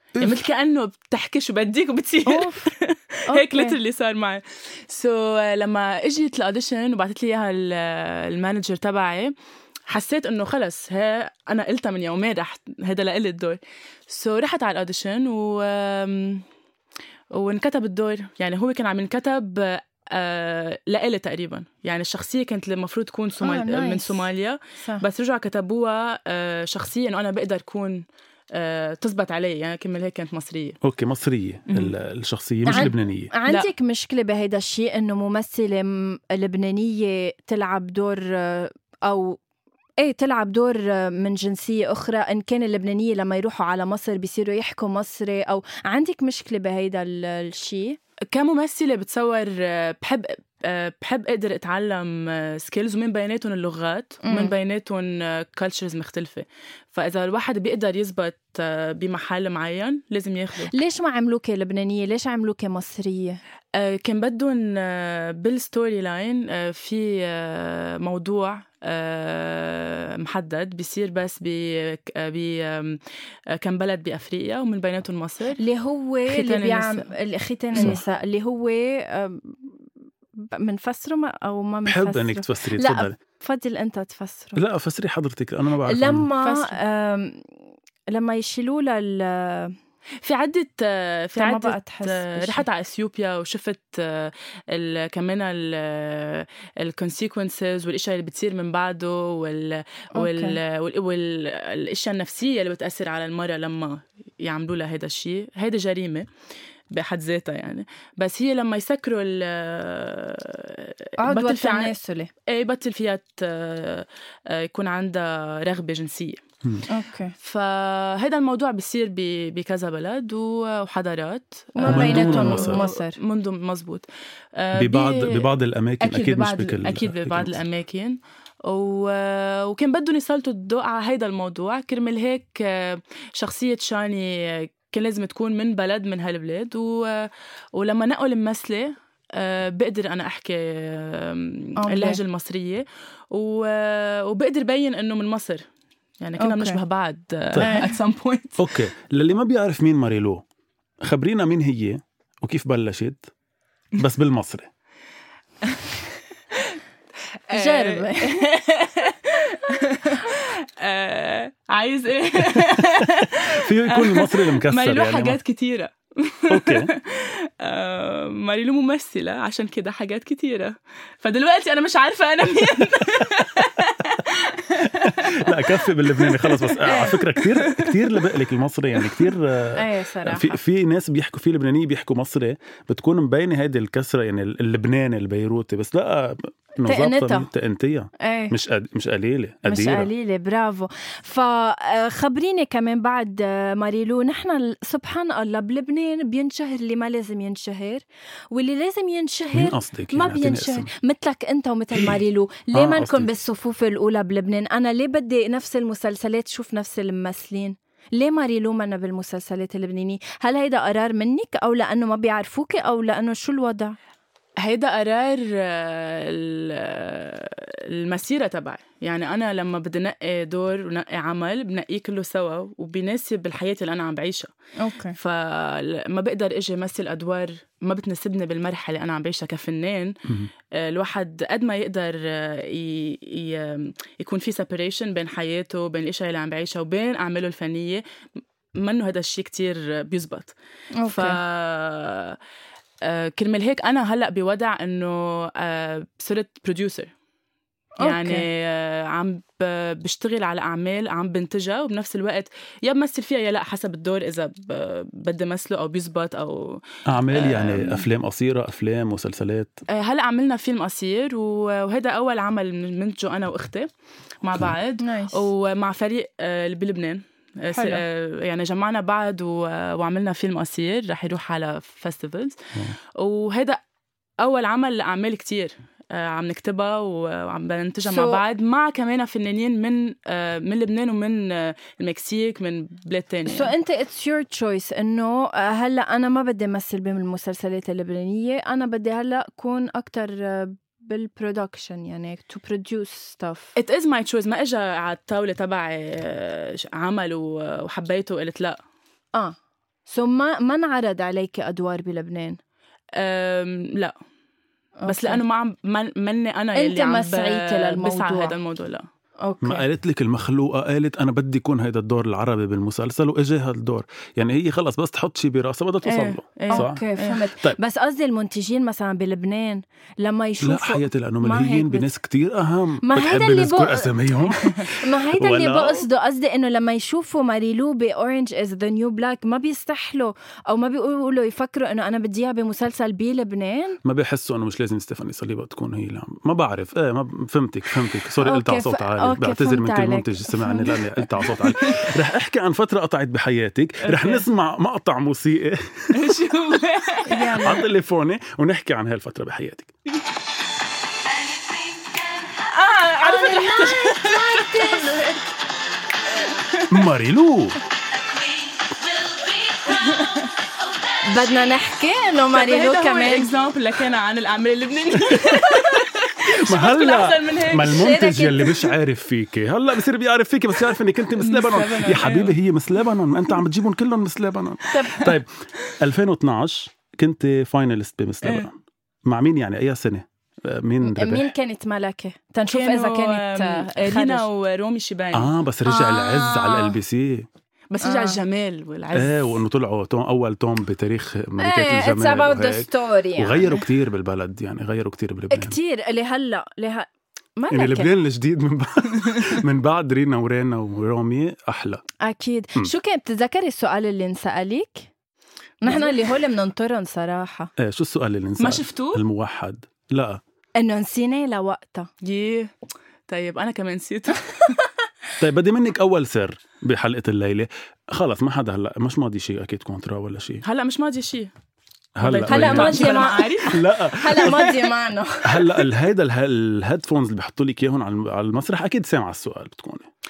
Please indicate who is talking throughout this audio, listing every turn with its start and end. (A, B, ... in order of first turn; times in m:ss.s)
0:00.1-0:00.5 A
0:00.2-0:09.3 B
0:02.3-0:02.7 C
0:03.3-0:03.8 C
0:09.9-0:16.4 B
0:17.3-0:30.8 B
0:23.4-0:24.3 C
0:30.8-0:33.3 A
0:31.7-0:31.9 B
0:32.7-0:39.4 C
0:40.0-0:48.0 C
0:48.3-1:00.7 B
0:54.2-0:54.5 C
1:00.7-1:03.4 C
1:03.7-1:13.0 B
1:13.5-1:15.6 B
1:15.6-1:19.7 C
1:16.3-1:17.1 B
1:20.4-1:24.6 C
1:21.8-1:23.2 A
1:24.6-1:26.3 A
1:25.9-1:27.5 C
1:26.4-1:26.8 B
1:28.1-1:29.7 C
1:30.2-1:46.3 B
1:31.4-1:32.6 C
1:40.1-1:40.6 C
1:46.9-1:51.9 B
1:51.2-1:52.3 C
1:52.5-1:56.4 B
1:56.9-1:57.3 C
1:57.4-2:05.5 B
2:01.8-2:03.2 C
2:01.8-2:02.8 A
2:04.7-2:07.6 A
2:06.0-2:25.6 B
2:21.8-2:22.2 C
2:26.2-2:28.6 B
2:26.4-2:26.8 C
2:27.6-2:27.9 C
2:28.6-2:30.4 A
2:31.0-2:33.2 A
2:34.0-2:34.7 A
2:37.5-2:58.4 B
2:37.5-2:38.4 C
2:42.6-2:45.4 A
2:46.5-2:46.9 A
2:54.8-3:10.1 A
2:56.8-2:57.1 C
2:59.0-2:59.3 B
2:59.7-3:00.6 C
3:06.8-3:07.5 C
3:08.2-3:08.5 C
3:09.6-3:34.0 C
3:19.5-3:20.9 A
3:22.7-3:23.3 A
3:34.6-3:44.5 B
3:44.8-3:45.2 C
3:45.2-3:50.1 B
3:50.7-3:58.0 B
3:58.8-4:00.5 B
4:01.0-4:01.4 C
4:01.1-4:02.4 B
4:03.0-4:07.1 B
4:08.0-4:08.4 C
4:08.0-4:18.0 B
4:17.0-4:19.8 A
4:19.9-4:23.9 B
4:24.4-4:33.8 B
4:25.0-4:25.5 C
4:27.7-4:28.0 C
4:34.4-4:43.7 B
4:38.0-4:38.4 C
4:43.5-4:53.8 C
4:53.8-4:58.8 B
5:00.1-5:02.6 C
5:03.2-5:04.1 B
5:05.0-5:05.4 C
5:05.1-5:09.0 B
5:06.7-5:08.6 C
5:09.4-5:09.8 C
5:09.6-5:17.0 A
5:16.0-5:17.4 B
5:16.7-5:22.1 C
5:20.6-5:26.0 A
5:23.0-5:34.0 C
5:34.0-5:46.3 A
5:38.4-5:41.6 C
5:41.8-5:42.1 B
5:44.0-5:44.4 B
5:46.1-5:47.7 B
5:47.3-5:47.8 C
5:47.5-5:49.9 A
5:52.4-5:55.4 B
5:53.2-5:55.3 C
5:56.6-5:57.0 B
5:56.9-5:57.8 A
5:59.7-6:00.5 B
6:01.2-6:03.5 C
6:02.5-6:08.2 B
6:05.3-6:05.8 A
6:05.7-6:06.0 C
6:06.4-6:21.5 A
6:07.9-6:08.9 C
6:11.4-6:12.6 B
6:14.9-6:15.2 C
6:21.0-6:24.4 C
6:22.7-6:25.5 B
6:25.3-6:27.5 A
6:25.9-6:26.9 C
6:27.9-6:29.6 B
6:28.0-6:28.4 C
6:29.1-6:35.8 A
6:31.6-6:33.8 C
6:35.5-6:38.1 C
6:37.7-6:42.0 A
6:42.2-6:45.1 C
6:45.8-6:47.7 C
6:45.8-6:46.2 B
6:47.8-6:50.4 A
6:48.6-6:49.2 B
6:50.8-6:52.1 C
6:52.2-6:52.7 B
6:53.3-6:54.8 B
6:55.4-7:00.6 A
7:00.6-7:01.5 B
7:02.2-7:04.7 A
7:02.2-7:03.8 B
7:02.5-7:05.8 C
7:05.4-7:10.1 A